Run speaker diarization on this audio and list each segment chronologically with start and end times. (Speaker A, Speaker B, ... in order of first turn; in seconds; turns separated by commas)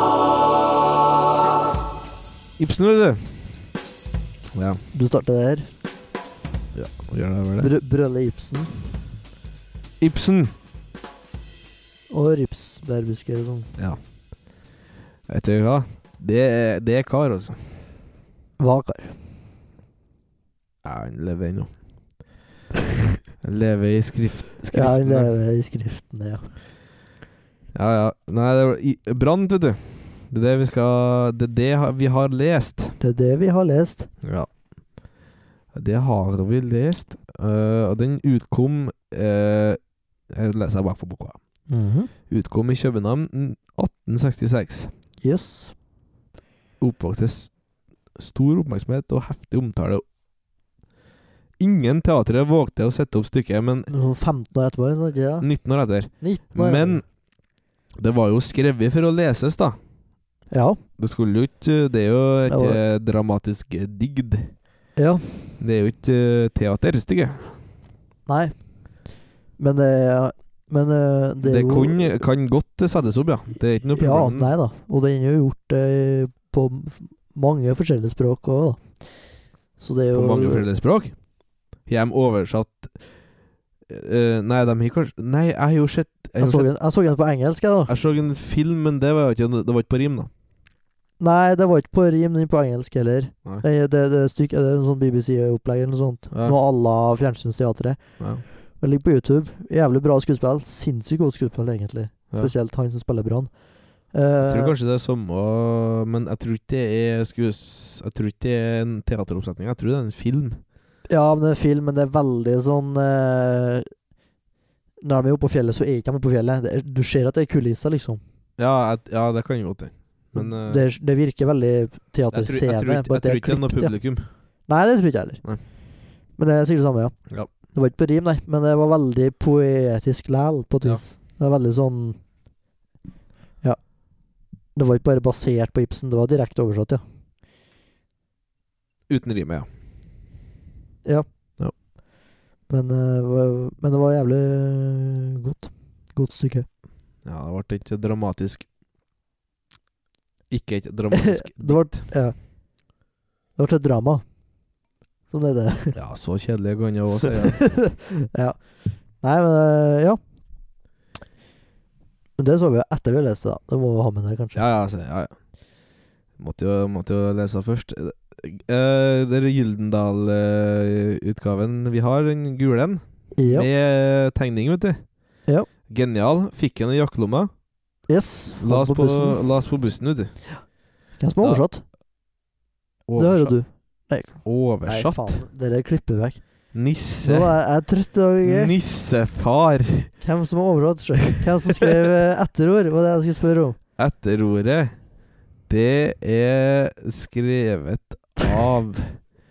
Speaker A: 2.6-3.5, Speaker A: 4.5-4.8, Speaker B: 4.9-5.7, Speaker A: 6.7-7.7, Speaker B: 7.6-8.8, Speaker A: 10.0-10.5, Speaker B: 12.1-13.7, Speaker A: 15.3-17.6, Speaker B: 18.6-19.2, Speaker A: 20.8-21.7, Speaker A: 23.4-25.3, Speaker B: 24.7-26.4, Speaker A: 27.7-33.0, Speaker B: 33.0-34.1, Speaker A: 34.2-34.5, Speaker A: 35.7-41.4, Speaker B: 41.7-42.1, Speaker A: 42.3-44.9, Speaker B: 45.2-45.7, Speaker A: 46.8-47.5, Speaker A: 48.1-50.0, Speaker A: 51.6-53.9, Speaker B: 53.9-55.5, Speaker A: 55.4-57.0, Speaker B: 56.2-57.0, Speaker A: 58.0-59.8, Speaker B: 60.5-60.8, Speaker A: 61.0-64.5, Speaker B: 62.5-62.8, Speaker B: 65.0-65.5, Speaker A: 65.6-67.5, Speaker B: 68.3-68.5, Speaker B: 69.6-72.2, Speaker A: 71.4-74.5, Speaker B: 73.9-80.6, Speaker A: 80.1-81.2, Speaker A: 81.8-83.0, Speaker A: 83.9-86.7, Speaker B: 86.4-87.9, Speaker A: 87.9-90.3, Speaker B: 91.2-98.0, Speaker B: 98.8-103.5, Speaker B: 104.1-104.7, Speaker A: 104.4-110.6, Speaker B: 111.1-113.9, Speaker B: 115.0-118.2, Speaker A: 118.6-120.8, Speaker B: 120.3-124.0, Speaker A: 122.3-124.3, Speaker B: 124.7-125.4, Speaker B: 126.4-127.2, Speaker B: 127.7-132.2, Speaker B: 134.7-137.0, Speaker A: 139.1-139.7, Speaker B: 142.7-146.7, Speaker A: 147.2-148.7, Speaker A: 150.5-152.1, Speaker B: 151.1-152.3, Speaker B: 153.6-154.2, Speaker B: 155.3-155.9, Speaker A: 155.9-157.7, Speaker B: 157.3-160.2, Speaker B: 162.4-164.6, Speaker A: 164.5-165.3, Speaker A: 166.4-175.1, Speaker B: 173.3-173.7, Speaker A: 175.8-177.5, Speaker B: 178.1-179.4, Speaker A: 178.6-180.5, Speaker B: 181.2-181.8, Speaker A: 183.1-183.6, Speaker B: 183.2-186.4, Speaker A: 184.4-185.4, Speaker A: 186.7-187.6, Speaker B: 187.2-188.7, Speaker A: 188.4-190.1, Speaker B: 190.2-193.8, Speaker A: 194.0-194.9, Speaker A: 195.7-199.2